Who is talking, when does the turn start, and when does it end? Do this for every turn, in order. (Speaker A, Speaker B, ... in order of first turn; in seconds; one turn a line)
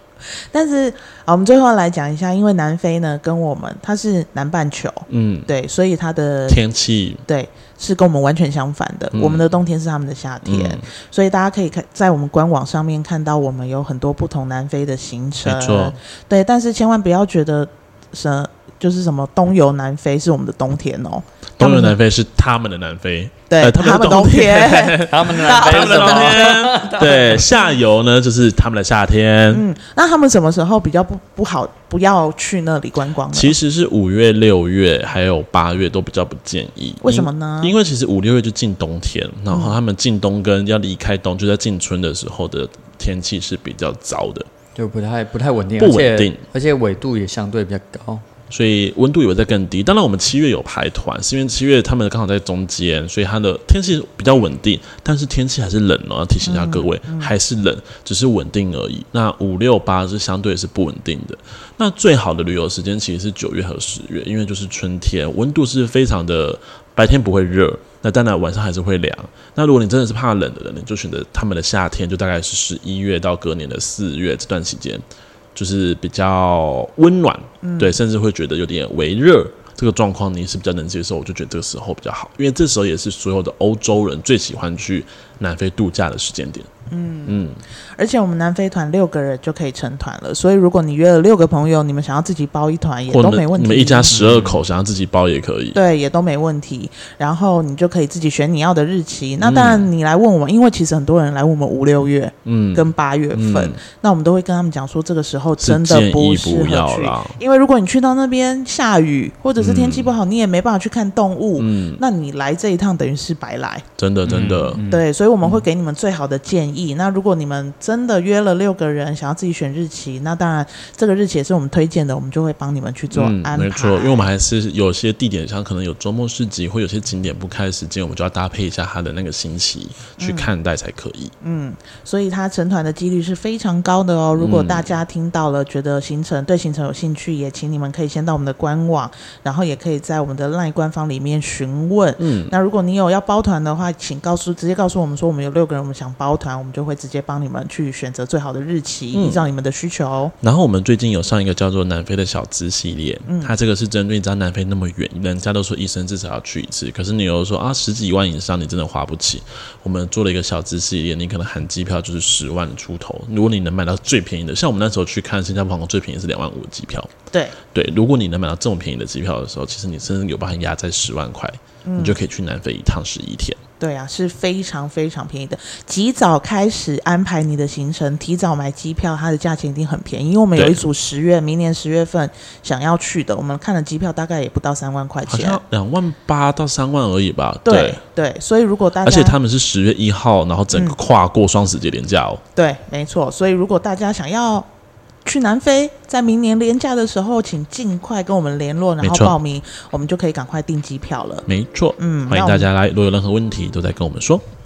Speaker A: 0.5-6.6
Speaker B: 5.1-5.5
Speaker B: 6.5-7.2
Speaker A: 7.3-22.0
Speaker B: 9.1-9.5
Speaker B: 10.4-10.9
Speaker B: 15.4-16.0
Speaker B: 21.6-29.6
Speaker A: 23.5-27.4
Speaker C: 25.1-27.4
Speaker A: 29.5-33.6
Speaker B: 33.3-44.5
Speaker A: 37.0-37.8
Speaker A: 39.5-39.8
Speaker C: 44.8-48.2
Speaker B: 45.8-46.4
Speaker B: 48.5-75.0
Speaker A: 56.4-57.3
Speaker B: 75.5-86.7
Speaker A: 77.6-78.0
Speaker A: 86.9-87.4
Speaker B: 87.3-87.6
Speaker A: 88.0-94.2
Speaker B: 93.1-95.8
Speaker C: 94.1-94.6
Speaker A: 95.7-113.8
Speaker B: 99.4-99.9
Speaker B: 102.5-103.8
Speaker B: 105.6-107.4
Speaker B: 109.6-110.2
Speaker B: 111.6-112.0
Speaker B: 114.0-114.8
Speaker C: 114.2-115.1
Speaker A: 114.9-124.3
Speaker B: 123.1-131.3
Speaker A: 130.2-130.5
Speaker A: 131.4-150.3
Speaker B: 134.4-134.9
Speaker B: 142.2-142.5
Speaker B: 149.1-149.4
Speaker B: 150.4-167.1
Speaker A: 153.3-153.5
Speaker B: 167.7-173.6
Speaker A: 171.8-172.2
Speaker A: 173.8-185.6
Speaker B: 180.6-180.8
Speaker B: 185.3-188.0
Speaker A: 187.7-189.4
Speaker B: 189.0-192.4
Speaker A: 192.6-194.7
Speaker A: 195.2-201.5
Speaker B: 199.0-199.4
Speaker B: 201.5-204.4
Speaker A: 202.0-202.7